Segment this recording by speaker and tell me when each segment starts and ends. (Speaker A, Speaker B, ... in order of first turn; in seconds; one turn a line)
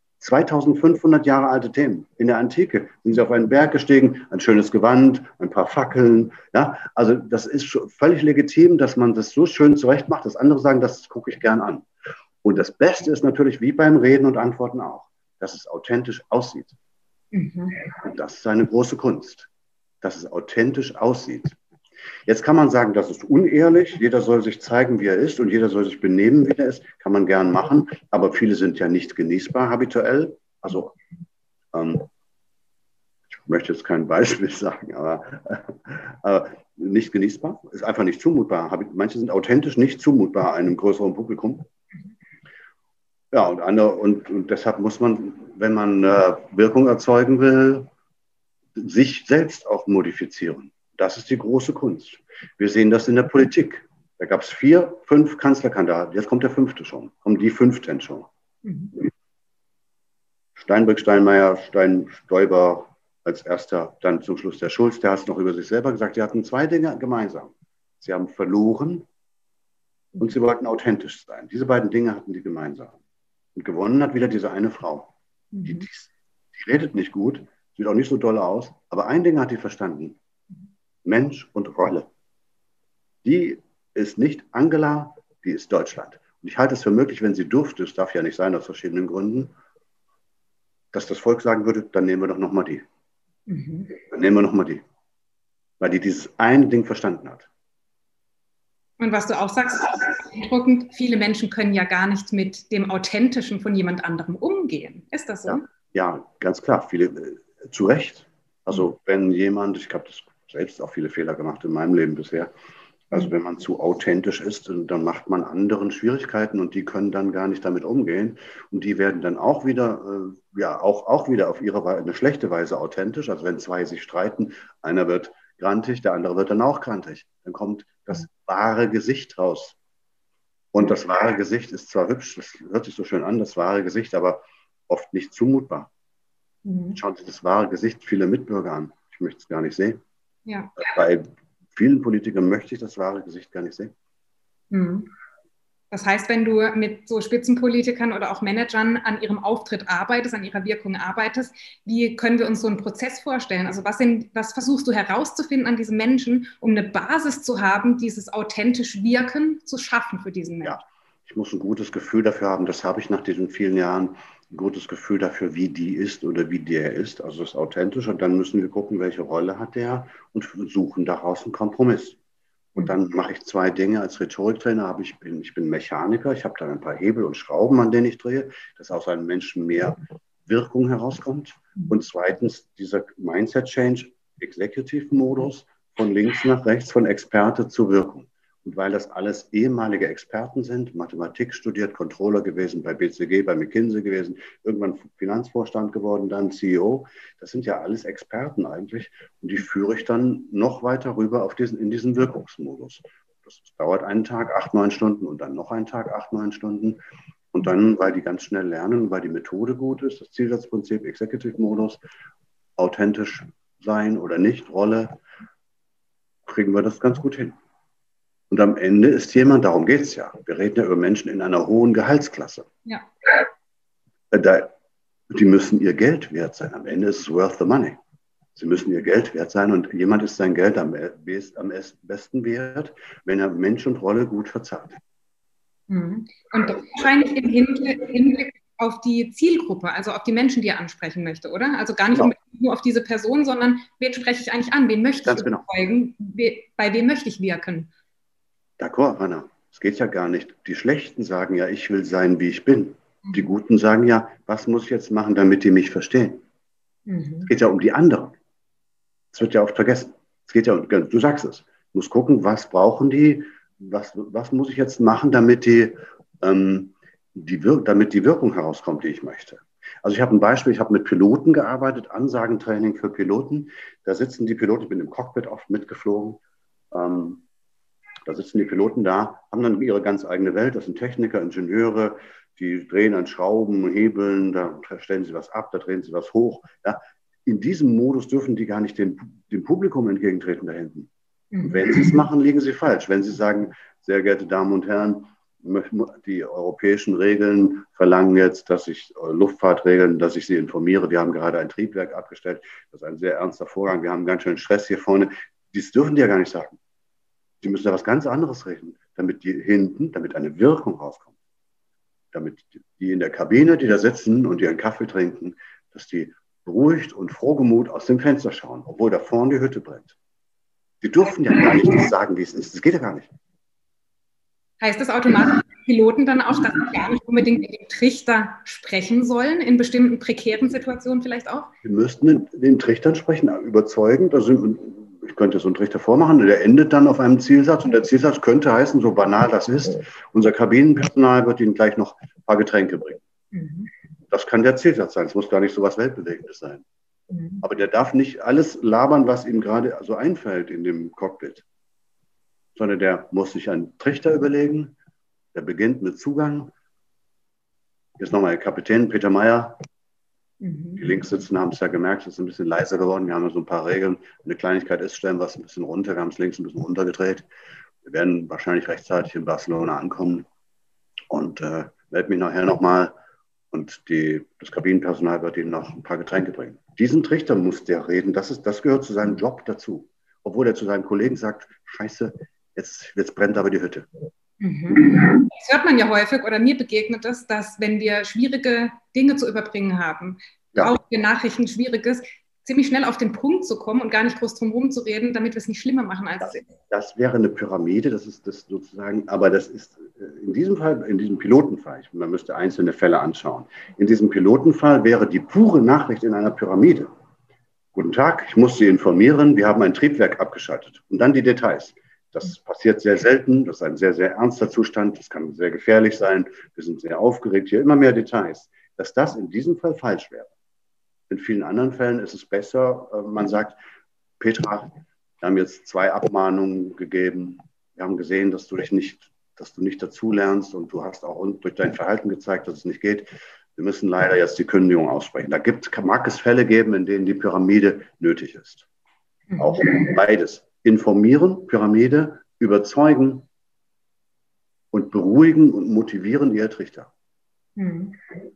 Speaker A: 0.2-11.9
Speaker A: 12.4-16.7
Speaker B: 17.3-17.8
Speaker A: 18.0-19.5
Speaker A: 20.0-21.6
Speaker A: 22.2-30.9
Speaker A: 31.7-32.0
Speaker A: 33.3-41.6
Speaker A: 43.3-47.9
Speaker A: 48.8-58.3
Speaker B: 58.6-58.9
Speaker A: 60.6-69.1
Speaker A: 70.2-73.0
Speaker A: 73.5-75.1
Speaker B: 75.5-75.8
Speaker A: 75.6-80.2
Speaker A: 81.0-82.1
Speaker A: 83.2-89.5
Speaker A: 90.9-92.8
Speaker B: 93.5-93.9
Speaker A: 94.0-94.8
Speaker A: 95.8-97.5
Speaker B: 99.0-105.6
Speaker A: 105.5-112.5
Speaker A: 113.1-129.8
Speaker A: 130.7-135.9
Speaker B: 136.6-137.0
Speaker A: 136.9-140.0
Speaker B: 140.4-140.7
Speaker A: 140.8-143.9
Speaker B: 144.7-145.1
Speaker B: 145.9-160.8
Speaker A: 160.6-172.2
Speaker A: 172.8-207.0
Speaker A: 207.5-212.0
Speaker A: 212.8-215.2
Speaker A: 216.4-217.6
Speaker A: 218.5-222.7
Speaker A: 224.3-224.7
Speaker A: 225.3-228.0
Speaker A: 228.6-235.0
Speaker B: 235.9-247.9
Speaker A: 245.2-245.6
Speaker A: 248.8-256.4
Speaker B: 257.1-257.5
Speaker A: 257.4-258.3
Speaker A: 259.3-276.4
Speaker A: 276.9-277.4
Speaker A: 278.3-291.1
Speaker B: 291.5-292.1
Speaker A: 291.6-306.8
Speaker A: 307.6-311.3
Speaker A: 312.3-320.1
Speaker A: 321.0-323.3
Speaker B: 324.8-331.7
Speaker A: 331.8-343.2
Speaker B: 343.5-343.9
Speaker A: 344.3-346.8
Speaker B: 347.3-347.6
Speaker A: 347.6-351.6
Speaker A: 352.8-354.9
Speaker A: 355.5-356.7
Speaker A: 358.2-359.8
Speaker B: 360.6-361.0
Speaker A: 361.0-367.5
Speaker A: 368.0-370.4
Speaker A: 371.3-373.1
Speaker A: 373.7-384.1
Speaker B: 384.6-396.6
Speaker A: 396.4-407.1
Speaker A: 407.9-420.5
Speaker A: 421.3-423.8
Speaker A: 424.4-438.9
Speaker B: 439.5-440.0
Speaker A: 439.6-443.5
Speaker A: 444.9-447.1
Speaker B: 447.8-448.2